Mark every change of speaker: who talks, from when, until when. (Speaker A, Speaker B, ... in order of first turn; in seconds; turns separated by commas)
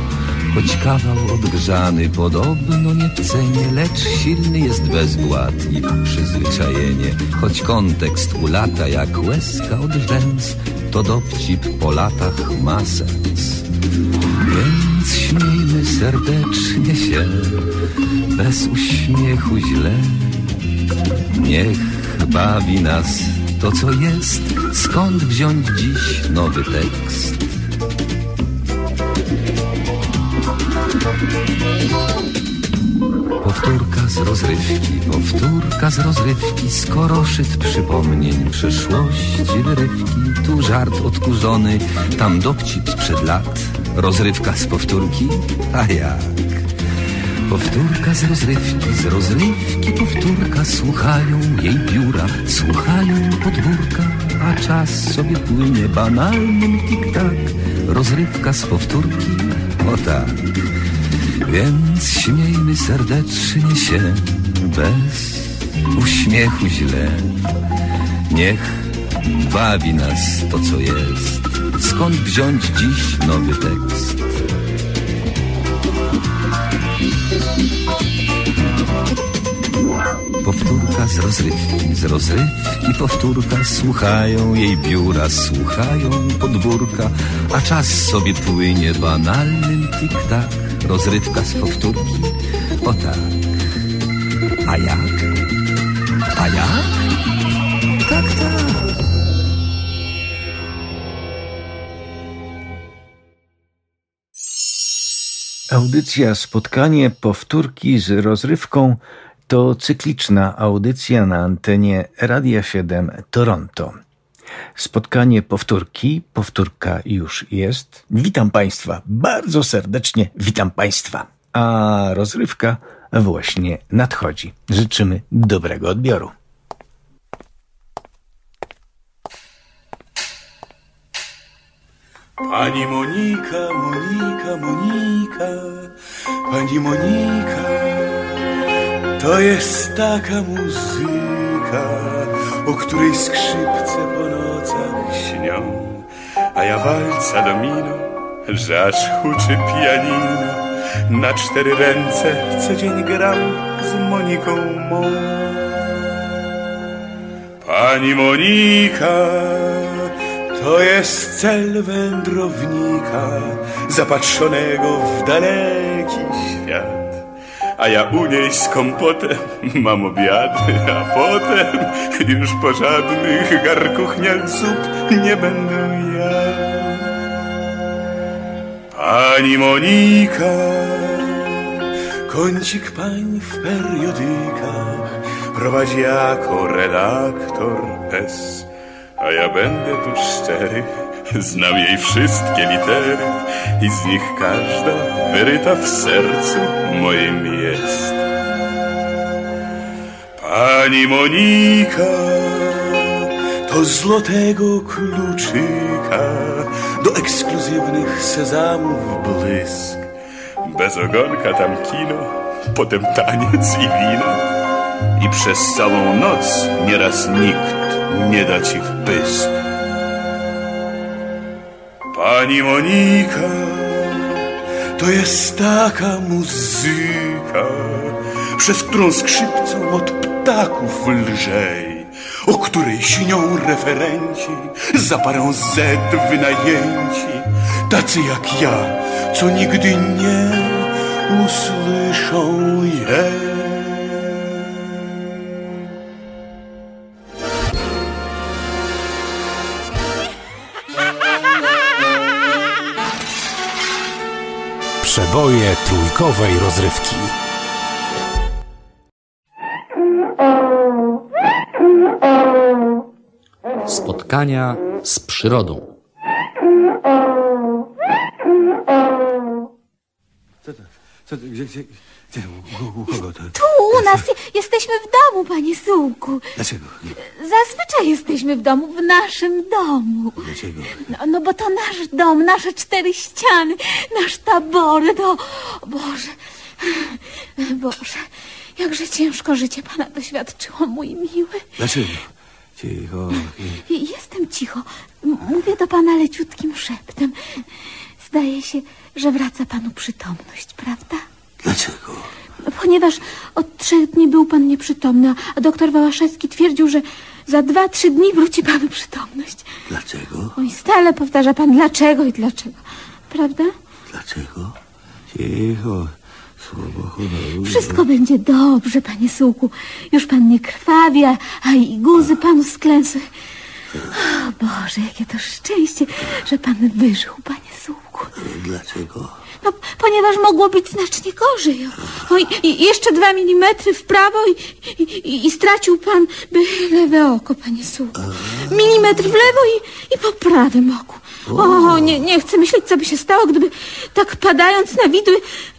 Speaker A: 0.5-13.6, Speaker A: 14.4-17.7, Speaker A: 18.3-20.5, Speaker A: 21.3-27.5, Speaker A: 33.4-46.6, Speaker A: 47.5-60.4, Speaker A: 61.4-67.3, Speaker A: 68.3-74.4, Speaker A: 80.4-93.5, Speaker A: 94.7-95.3, Speaker A: 96.3-96.9, Speaker A: 98.0-98.9, Speaker B: 105.7-114.0, Speaker B: 114.8-126.3, Speaker C: 132.4-135.9, Speaker C: 136.5-138.2, Speaker C: 139.2-155.7, Speaker C: 157.6-167.2, Speaker C: 167.8-177.1, Speaker C: 178.9-181.6, Speaker C: 182.3-198.2, Speaker C: 200.4-210.1, Speaker C: 210.6-214.4, Speaker C: 215.2-219.5, Speaker C: 222.1-224.4, Speaker C: 225.0-244.4, Speaker D: 255.0-257.4, Speaker E: 263.9-265.9, Speaker F: 270.6-274.2, Speaker G: 273.5-276.5, Speaker F: 276.6-277.1, Speaker G: 277.2-280.5, Speaker F: 280.4-281.1, Speaker G: 281.1-291.7, Speaker F: 291.8-293.8, Speaker G: 293.9-297.6, Speaker G: 298.2-301.2, Speaker F: 301.6-302.3, Speaker G: 302.6-309.7, Speaker F: 309.9-310.5, Speaker G: 310.6-313.7, Speaker F: 314.1-314.7, Speaker F: 315.3-318.0, Speaker G: 317.6-323.3, Speaker G: 324.1-328.3, Speaker F: 328.4-329.3, Speaker G: 329.6-345.4, Speaker F: 338.2-338.6, Speaker F: 341.5-342.2